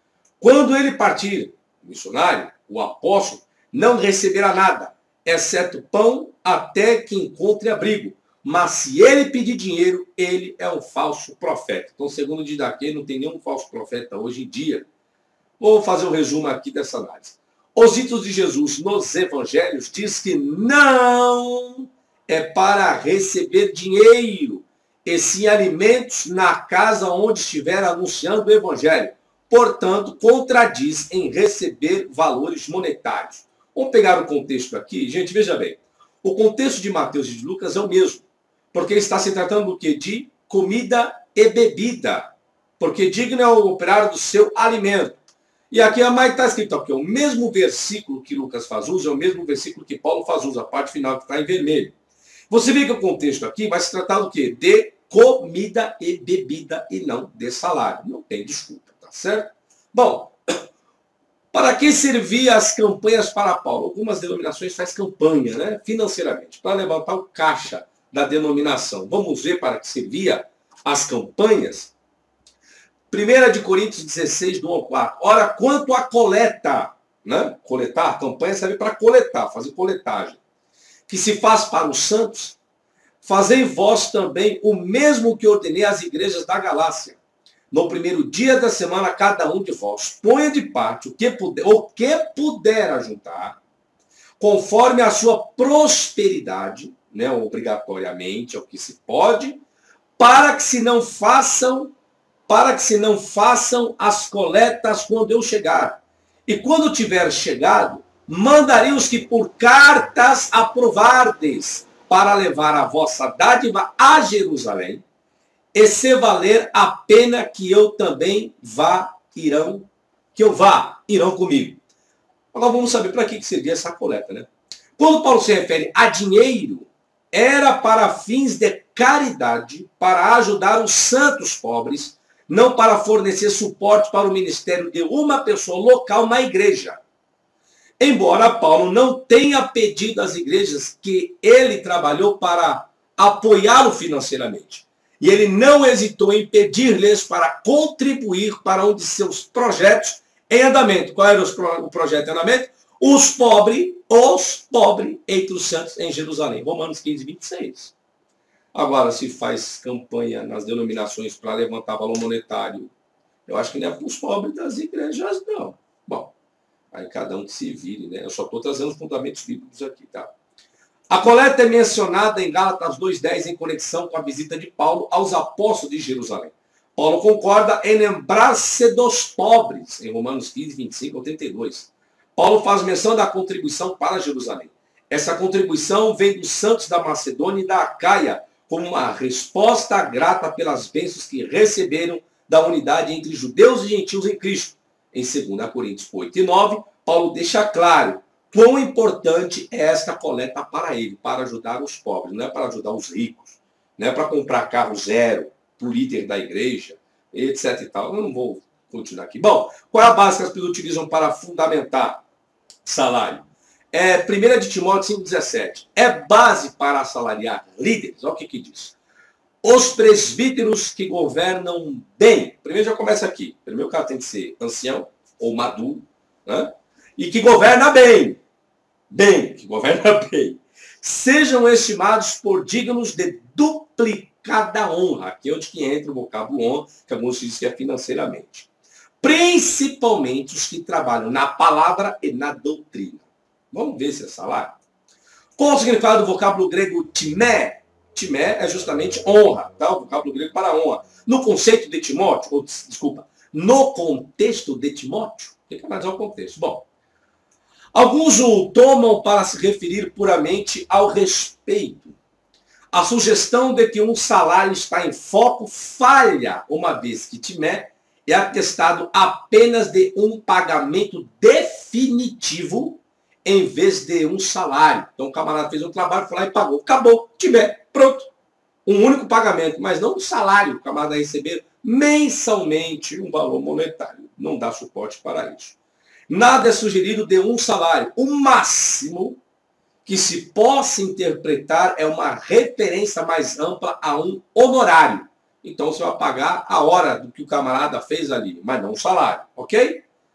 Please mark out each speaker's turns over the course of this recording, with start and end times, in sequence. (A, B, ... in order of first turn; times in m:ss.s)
0:00.4-0:14.9 A
0:15.6-0:45.2 A
0:45.7-0:51.9 A
0:52.5-1:00.3 A
1:01.5-1:11.9 A
1:13.1-1:20.4 A
1:21.1-1:22.6 A
1:23.2-1:27.2 A
1:27.7-1:33.6 A
1:34.4-1:39.6 A
1:40.2-1:41.9 A
1:42.5-1:55.0 A
1:55.7-2:01.8 A
2:02.5-2:17.0 A
2:18.0-2:37.9 A
2:38.7-2:42.9 A
2:43.4-2:46.3 A
2:46.9-2:50.3 A
2:51.1-3:32.2 A
3:32.8-3:39.0 A
3:39.6-3:48.4 A
3:49.1-3:58.7 A
3:59.2-4:04.8 A
4:05.6-4:16.8 A
4:17.9-4:22.2 A
4:22.9-4:38.3 A
4:38.8-4:45.8 A
4:46.3-4:49.4 A
4:50.0-5:00.0 A